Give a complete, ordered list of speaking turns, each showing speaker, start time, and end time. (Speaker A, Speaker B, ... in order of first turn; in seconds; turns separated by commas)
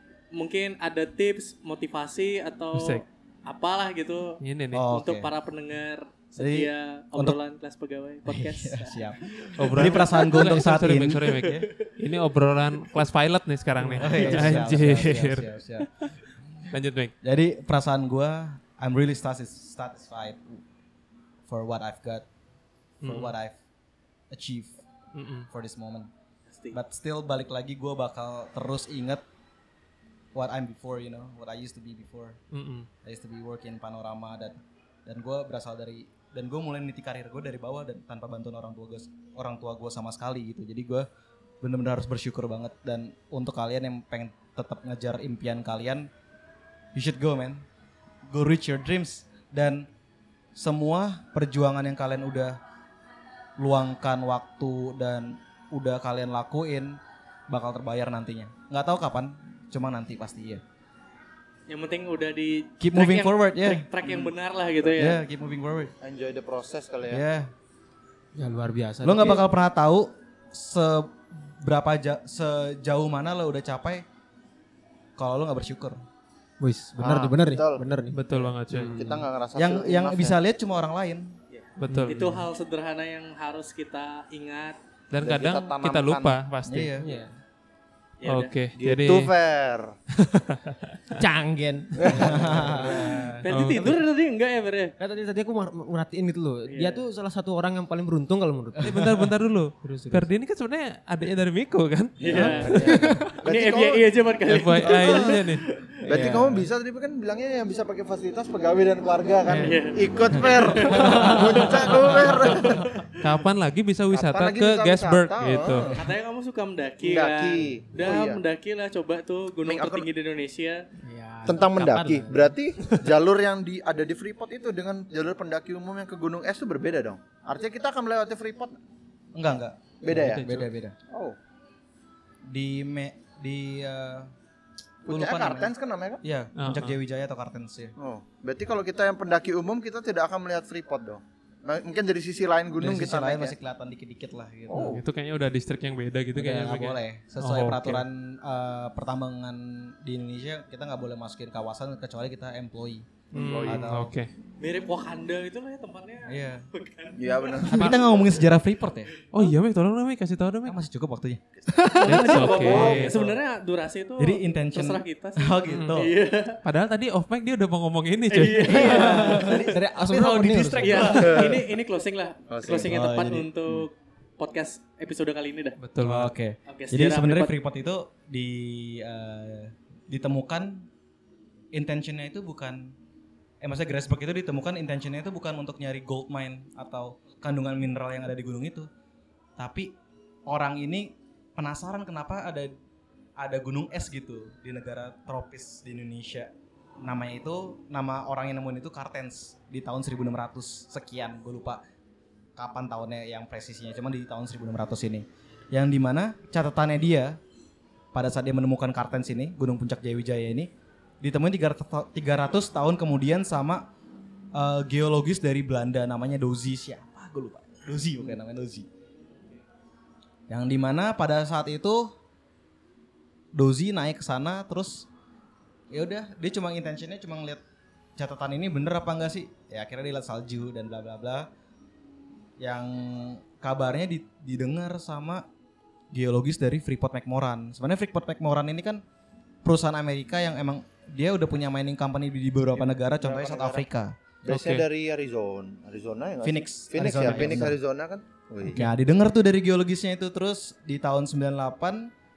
Speaker A: 0.3-9.0, Speaker B: 2.7-3.0, Speaker B: 4.4-4.8, Speaker C: 4.7-5.3, Speaker C: 6.4-7.4, Speaker C: 8.2-11.7, Speaker B: 9.6-16.1, Speaker C: 13.9-15.9, Speaker A: 13.9-14.6, Speaker C: 16.6-20.6, Speaker B: 16.6-17.1, Speaker C: 21.5-22.2, Speaker B: 23.0-23.3, Speaker C: 23.0-23.6, Speaker C: 24.3-24.8, Speaker B: 25.1-25.5, Speaker C: 25.5-26.1, Speaker A: 26.5-26.8, Speaker C: 26.7-29.2, Speaker C: 30.3-32.4, Speaker B: 32.5-32.9, Speaker C: 33.0-41.1, Speaker C: 41.6-46.1, Speaker C: 46.9-47.6, Speaker C: 48.3-49.9, Speaker C: 50.5-52.6, Speaker C: 53.6-60.6, Speaker A: 61.7-65.2, Speaker C: 62.8-63.9, Speaker D: 64.0-64.3, Speaker C: 65.0-65.9, Speaker D: 66.0-67.2, Speaker C: 67.1-67.5, Speaker E: 68.3-69.4, Speaker C: 69.0-74.0, Speaker C: 75.2-76.0, Speaker E: 76.6-78.2, Speaker D: 77.0-77.8, Speaker B: 78.1-79.0, Speaker E: 78.7-79.2, Speaker D: 78.9-80.4, Speaker C: 79.5-81.3, Speaker B: 81.8-82.3, Speaker E: 81.9-82.4, Speaker A: 82.1-84.8, Speaker B: 85.1-86.9, Speaker D: 85.2-86.3, Speaker C: 86.7-87.1, Speaker E: 87.0-87.3, Speaker A: 88.2-88.5, Speaker B: 88.2-89.3, Speaker D: 88.8-90.0, Speaker B: 90.1-91.2, Speaker E: 91.2-93.0, Speaker D: 92.0-92.9, Speaker C: 92.2-93.8, Speaker A: 92.8-94.9, Speaker B: 93.5-94.0, Speaker E: 95.0-99.1, Speaker A: 96.7-97.0, Speaker B: 98.8-103.1, Speaker C: 99.0-99.3, Speaker E: 99.8-100.3, Speaker D: 102.2-104.0, Speaker A: 102.2-105.7, Speaker E: 102.6-103.3, Speaker B: 104.5-105.7, Speaker D: 104.8-105.4, Speaker D: 106.0-113.0, Speaker C: 106.1-106.7, Speaker A: 109.5-113.2, Speaker C: 110.3-111.3, Speaker B: 113.2-115.9, Speaker D: 114.1-116.0, Speaker A: 115.9-120.9, Speaker D: 117.0-118.4, Speaker D: 119.7-120.1, Speaker E: 121.0-123.0, Speaker D: 121.5-128.8, Speaker C: 129.3-130.9, Speaker D: 130.0-131.4, Speaker B: 130.1-130.7, Speaker C: 132.5-134.3, Speaker D: 135.1-136.2, Speaker C: 135.1-137.9, Speaker B: 136.6-137.0, Speaker D: 138.0-143.5, Speaker C: 142.8-145.0, Speaker D: 144.7-145.0, Speaker B: 144.7-148.0, Speaker C: 146.3-154.1, Speaker D: 153.3-153.9, Speaker B: 153.3-154.3, Speaker A: 154.6-158.4, Speaker C: 156.2-156.6, Speaker D: 157.2-158.0, Speaker C: 157.7-159.1, Speaker A: 159.2-159.5, Speaker B: 159.3-160.8, Speaker C: 160.6-161.4, Speaker A: 161.8-166.6, Speaker B: 162.0-163.2, Speaker C: 162.6-163.4, Speaker C: 164.2-166.1, Speaker B: 165.7-166.0, Speaker B: 166.6-169.3, Speaker A: 168.3-175.8, Speaker C: 168.6-171.7, Speaker D: 171.1-171.5, Speaker D: 172.5-172.9, Speaker C: 172.8-173.8, Speaker B: 175.8-176.3, Speaker C: 176.0-180.9, Speaker A: 176.7-177.5, Speaker C: 181.7-182.9, Speaker C: 183.6-188.9, Speaker C: 189.6-189.9, Speaker C: 190.4-192.7, Speaker C: 193.4-201.8, Speaker C: 202.6-207.4, Speaker C: 208.1-210.7, Speaker C: 211.2-213.9, Speaker C: 214.5-218.9, Speaker C: 220.5-222.1, Speaker C: 223.5-225.1, Speaker C: 225.9-227.6, Speaker C: 228.2-231.5, Speaker C: 232.6-235.4, Speaker C: 236.1-239.0, Speaker C: 239.6-244.2, Speaker D: 242.7-243.8, Speaker D: 244.4-248.9, Speaker B: 244.5-244.8, Speaker C: 246.4-247.8, Speaker B: 247.2-247.6, Speaker C: 248.6-252.1